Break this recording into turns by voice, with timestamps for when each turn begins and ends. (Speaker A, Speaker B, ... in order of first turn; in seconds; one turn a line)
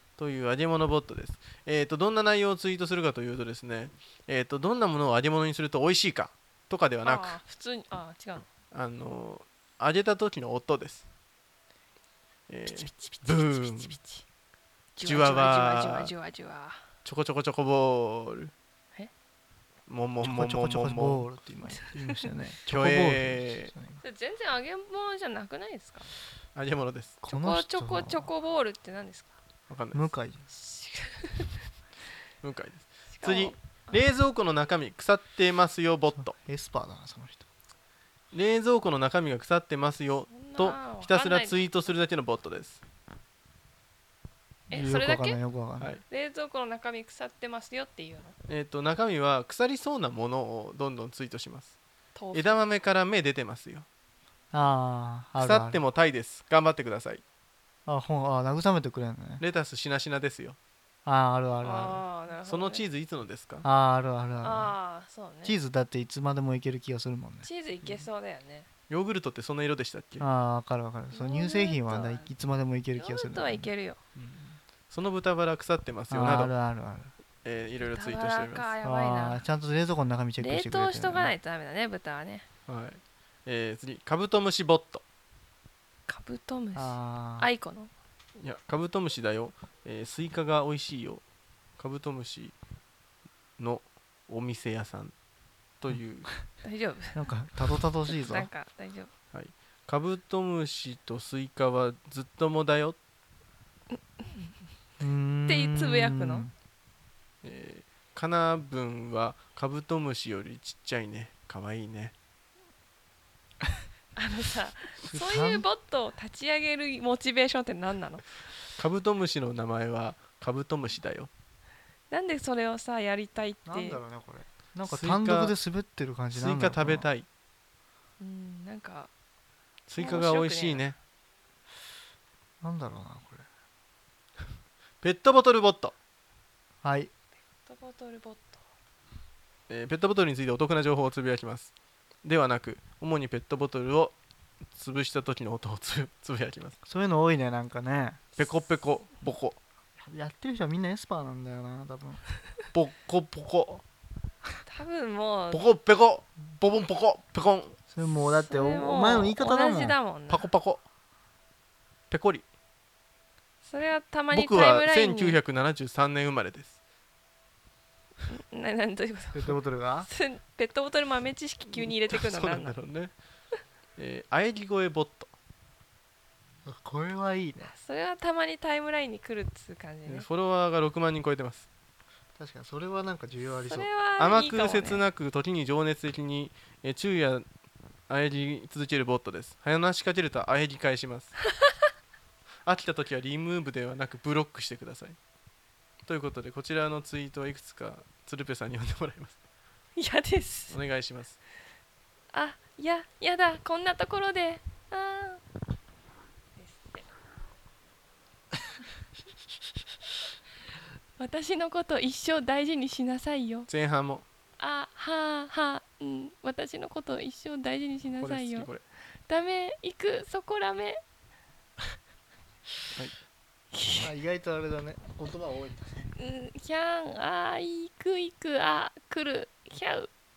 Speaker A: 0.2-7.4
Speaker B: 7.0-8.5
Speaker A: 8.7-11.1
Speaker A: 12.5-14.0
Speaker B: 12.7-14.2
Speaker B: 15.0-16.8
Speaker A: 15.0-16.1
Speaker A: 17.0-18.5
Speaker A: 19.9-21.3
Speaker C: 20.2-24.0
Speaker B: 21.7-22.2
Speaker A: 22.6-23.7
Speaker B: 24.0-26.1
Speaker A: 26.5-27.3
Speaker C: 27.2-28.3
Speaker B: 27.3-29.4
Speaker A: 29.7-30.1
Speaker C: 29.9-30.5
Speaker B: 30.5-31.6
Speaker A: 32.4-36.3
Speaker B: 33.1-34.1
Speaker C: 36.2-37.5
Speaker A: 38.3-42.8
Speaker B: 40.3-41.8
Speaker B: 44.7-45.4
Speaker C: 44.7-46.0
Speaker B: 46.0-48.3
Speaker A: 48.5-51.8
Speaker B: 52.1-52.6
Speaker A: 52.3-53.9
Speaker C: 54.5-55.8
Speaker A: 55.4-57.2
Speaker C: 57.9-59.4
Speaker A: 59.4-60.6
Speaker C: 61.0-62.0
Speaker B: 61.6-62.9
Speaker A: 62.5-63.6
Speaker C: 63.6-64.8
Speaker B: 64.4-65.5
Speaker C: 65.4-68.0
Speaker B: 67.4-68.7
Speaker A: 68.9-70.2
Speaker C: 70.2-73.7
Speaker B: 71.1-72.3
Speaker B: 72.9-74.0
Speaker A: 74.1-76.5
Speaker C: 76.1-77.1
Speaker A: 77.4-78.7
Speaker B: 77.8-79.4
Speaker C: 78.8-81.3
Speaker B: 80.4-82.5
Speaker A: 82.7-85.0
Speaker B: 86.1-87.9
Speaker C: 86.7-87.5
Speaker A: 88.4-91.2
Speaker A: 91.8-92.5
Speaker A: 93.6-95.1
Speaker A: 95.8-96.3
Speaker B: 96.6-97.2
Speaker C: 97.1-98.5
Speaker B: 98.1-99.1
Speaker A: 99.3-103.0
Speaker B: 103.9-104.5
Speaker C: 105.0-106.5
Speaker B: 105.5-106.5
Speaker A: 107.4-112.1
Speaker B: 114.2-118.4
Speaker C: 115.1-115.6
Speaker A: 118.7-121.3
Speaker B: 122.1-124.0
Speaker C: 123.7-127.1
Speaker A: 124.8-125.5
Speaker A: 126.3-127.3
Speaker B: 128.2-129.1
Speaker A: 129.9-131.0
Speaker B: 129.9-130.9
Speaker C: 132.6-133.4
Speaker A: 135.0-135.9
Speaker C: 136.8-137.1
Speaker B: 137.4-138.6
Speaker A: 139.7-141.7
Speaker A: 142.2-144.1
Speaker A: 144.7-146.8
Speaker C: 146.8-148.2
Speaker A: 148.4-149.6
Speaker C: 150.0-152.2
Speaker A: 152.7-153.8
Speaker B: 154.6-155.7
Speaker A: 155.5-158.4
Speaker C: 157.9-160.0
Speaker B: 158.4-160.5
Speaker A: 160.3-160.8
Speaker A: 162.1-162.4
Speaker B: 163.6-165.4
Speaker A: 164.3-166.8
Speaker B: 168.3-172.8
Speaker C: 169.3-170.1
Speaker A: 171.7-173.1
Speaker A: 174.0-175.3
Speaker C: 176.7-177.7
Speaker B: 177.6-180.2
Speaker A: 180.1-181.7
Speaker C: 182.4-183.9
Speaker B: 183.6-185.0
Speaker A: 184.2-187.4
Speaker A: 188.1-191.3
Speaker B: 191.4-191.9
Speaker A: 192.6-195.2
Speaker A: 196.1-199.4
Speaker B: 199.9-200.8
Speaker A: 200.7-201.4
Speaker B: 202.3-205.4
Speaker B: 206.6-207.1
Speaker B: 211.2-213.7
Speaker A: 213.7-214.2
Speaker B: 214.6-218.7
Speaker A: 218.2-218.8
Speaker B: 219.3-221.0
Speaker B: 223.7-224.1
Speaker C: 224.0-226.1
Speaker B: 226.2-230.1